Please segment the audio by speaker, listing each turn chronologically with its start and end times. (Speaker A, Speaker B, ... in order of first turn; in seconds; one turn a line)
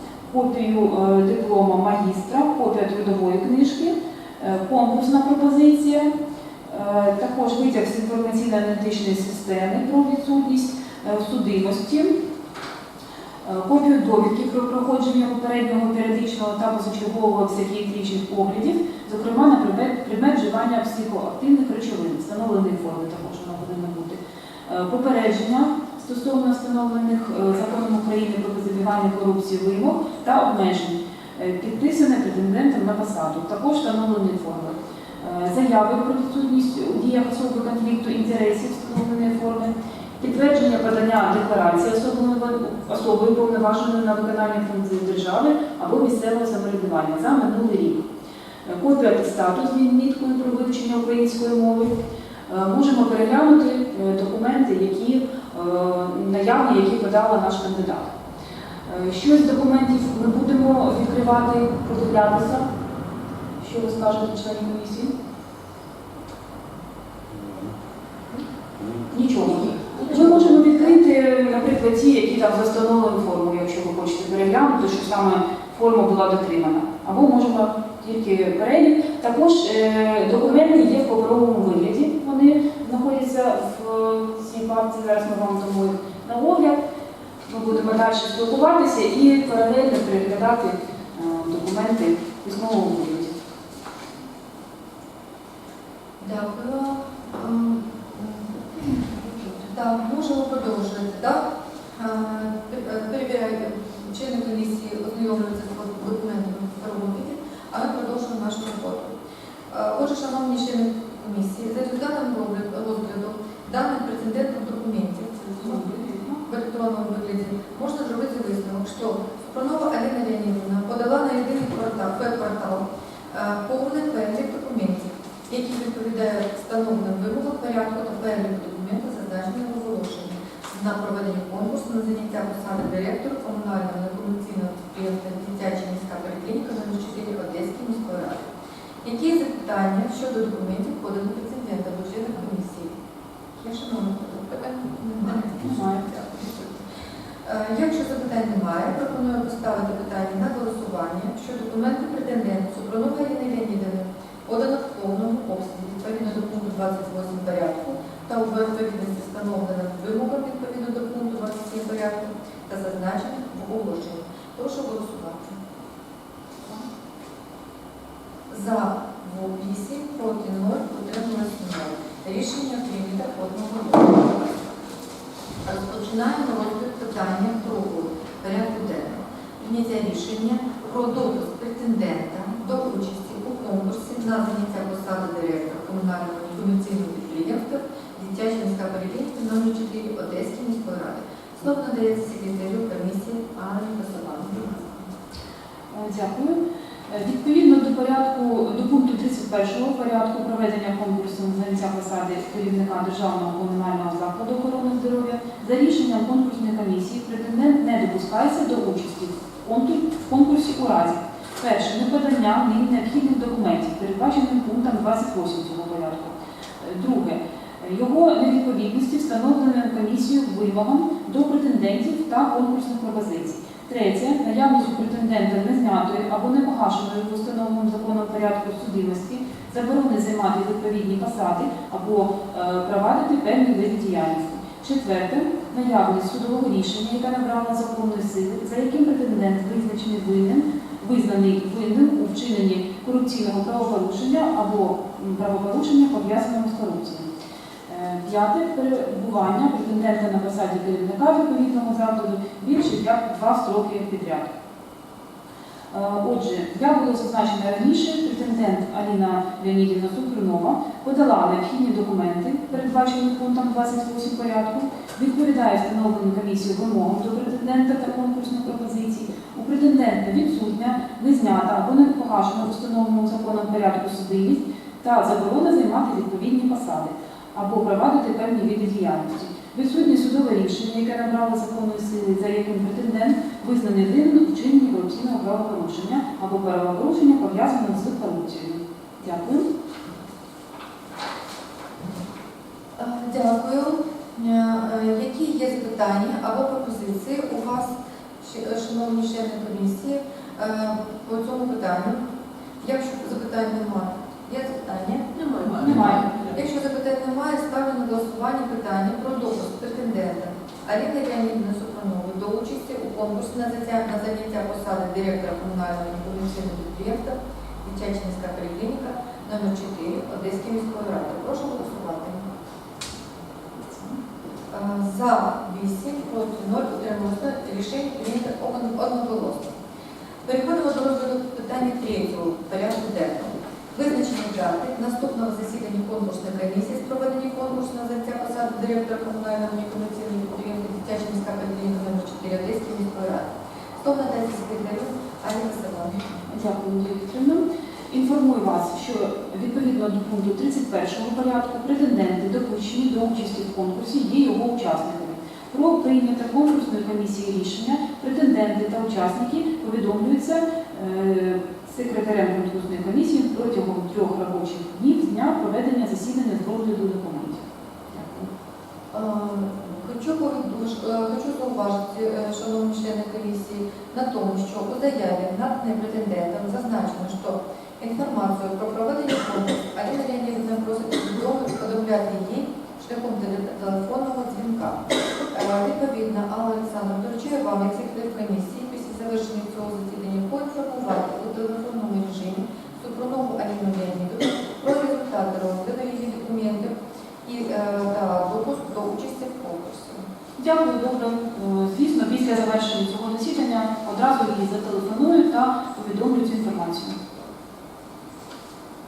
Speaker A: 0.3-6.1
Speaker A: 6.7-12.1
Speaker A: 13.4-48.0
Speaker A: 48.6-52.0
Speaker A: 52.5-58.1
Speaker A: 58.9-62.6
Speaker A: 63.6-65.1
Speaker A: 69.1-86.8
Speaker A: 87.5-93.3
Speaker B: 96.2-109.1
Speaker B: 109.7-115.9
Speaker A: 115.6-116.4
Speaker B: 116.4-138.5
Speaker B: 139.0-142.9
Speaker B: 143.6-146.8
Speaker A: 145.6-146.0
Speaker B: 147.4-165.6
Speaker B: 168.5-174.6
Speaker B: 175.6-195.1
Speaker A: 195.9-247.3
Speaker A: 247.9-254.5
Speaker A: 255.9-289.7
Speaker B: 293.0-302.2
Speaker B: 302.8-305.3
Speaker A: 305.7-306.4
Speaker B: 305.8-322.4
Speaker A: 323.8-324.2
Speaker B: 324.7-329.8
Speaker B: 330.4-346.3
Speaker A: 346.5-368.5
Speaker B: 369.1-400.2
Speaker A: 400.6-407.2